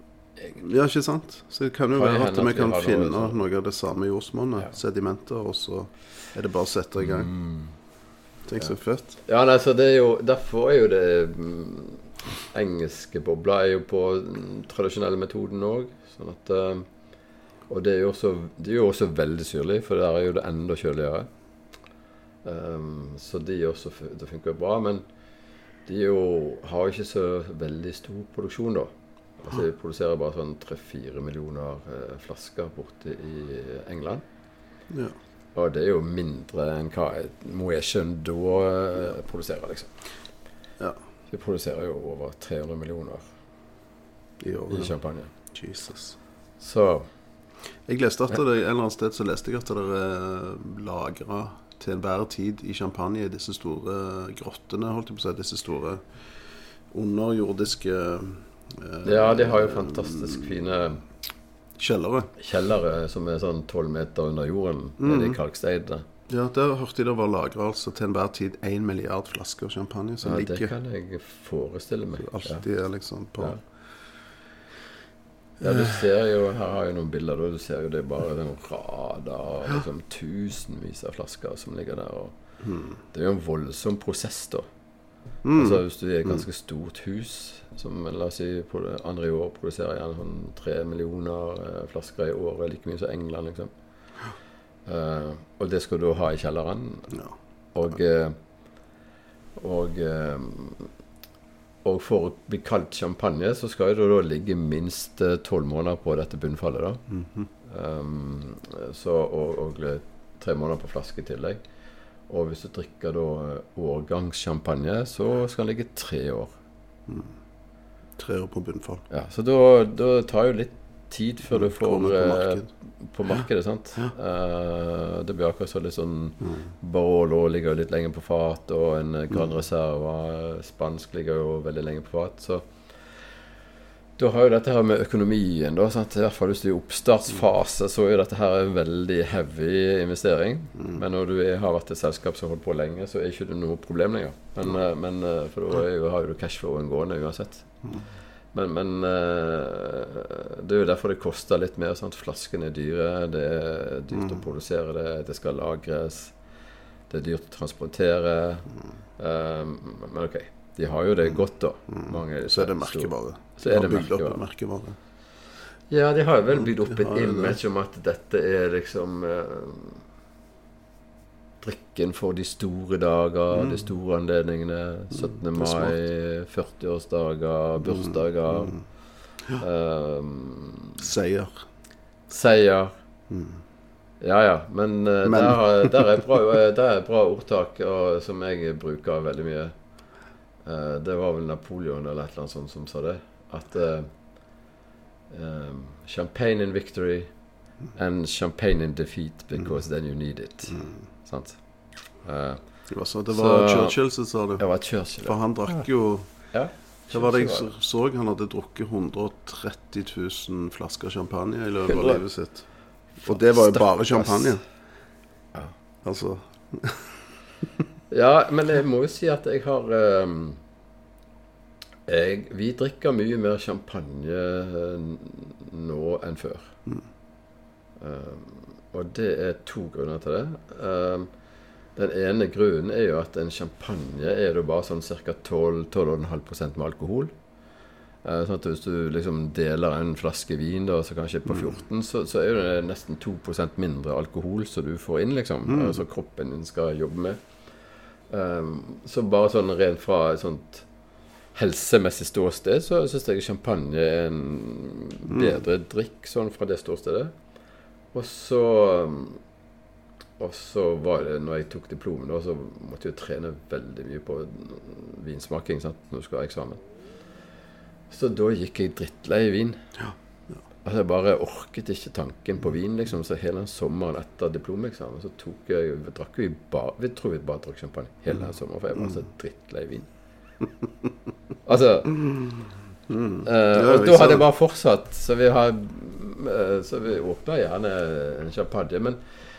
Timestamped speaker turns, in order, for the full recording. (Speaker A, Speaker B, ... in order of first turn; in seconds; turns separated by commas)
Speaker A: 0.6-7.3, Speaker B: 1.9-3.4, Speaker B: 7.0-7.7, Speaker A: 8.5-9.2, Speaker B: 9.2-16.9, Speaker B: 17.7-21.3, Speaker B: 22.4-25.0, Speaker B: 25.9-34.2, Speaker A: 34.9-35.1, Speaker B: 35.5-39.9, Speaker B: 41.3-43.2, Speaker A: 44.4-44.9, Speaker B: 44.7-45.3, Speaker A: 45.5-46.2, Speaker B: 46.6-47.0, Speaker A: 47.9-56.0, Speaker A: 56.9-60.4, Speaker B: 59.0-61.0, Speaker A: 61.8-62.3, Speaker B: 62.4-66.0, Speaker A: 65.0-65.4, Speaker A: 66.3-70.7, Speaker B: 70.2-72.6, Speaker A: 72.2-73.6, Speaker B: 75.6-82.3, Speaker A: 82.6-82.9, Speaker B: 83.1-84.6, Speaker A: 85.4-85.8, Speaker B: 85.5-93.7, Speaker B: 94.8-97.1, Speaker B: 97.7-98.4, Speaker B: 99.5-100.9, Speaker B: 101.8-107.0, Speaker A: 107.1-107.5, Speaker B: 107.6-111.6, Speaker B: 112.3-116.5, Speaker A: 118.2-119.0, Speaker B: 119.1-132.7, Speaker A: 121.5-122.7, Speaker B: 134.2-147.7, Speaker B: 148.5-156.3, Speaker B: 157.1-158.7, Speaker B: 159.2-164.4, Speaker A: 161.9-165.0, Speaker B: 165.9-170.0, Speaker A: 166.7-167.6, Speaker B: 171.6-178.8, Speaker A: 173.5-173.8, Speaker A: 175.6-175.9, Speaker B: 179.6-181.0, Speaker A: 181.0-181.5, Speaker B: 182.3-182.9, Speaker A: 183.3-183.6, Speaker B: 184.2-189.7, Speaker A: 185.2-186.0, Speaker B: 190.6-194.1, Speaker B: 195.3-197.3, Speaker B: 197.9-201.6, Speaker B: 202.2-202.6, Speaker A: 202.9-204.6, Speaker B: 203.3-204.0, Speaker B: 204.6-205.8, Speaker A: 205.2-206.3, Speaker B: 206.5-207.7, Speaker A: 207.1-212.7, Speaker B: 211.9-212.2, Speaker B: 213.2-214.6, Speaker A: 213.2-214.6, Speaker A: 216.0-217.1, Speaker B: 218.1-220.6, Speaker B: 222.1-226.7, Speaker B: 228.0-231.3, Speaker B: 231.9-237.3, Speaker B: 238.2-247.4, Speaker A: 245.7-246.0, Speaker B: 248.3-250.8, Speaker B: 251.5-257.3, Speaker A: 255.3-255.6, Speaker B: 258.1-259.4, Speaker B: 260.4-266.8, Speaker B: 268.1-269.8, Speaker B: 270.8-280.1, Speaker B: 281.6-282.2, Speaker A: 283.1-284.5, Speaker B: 283.4-289.2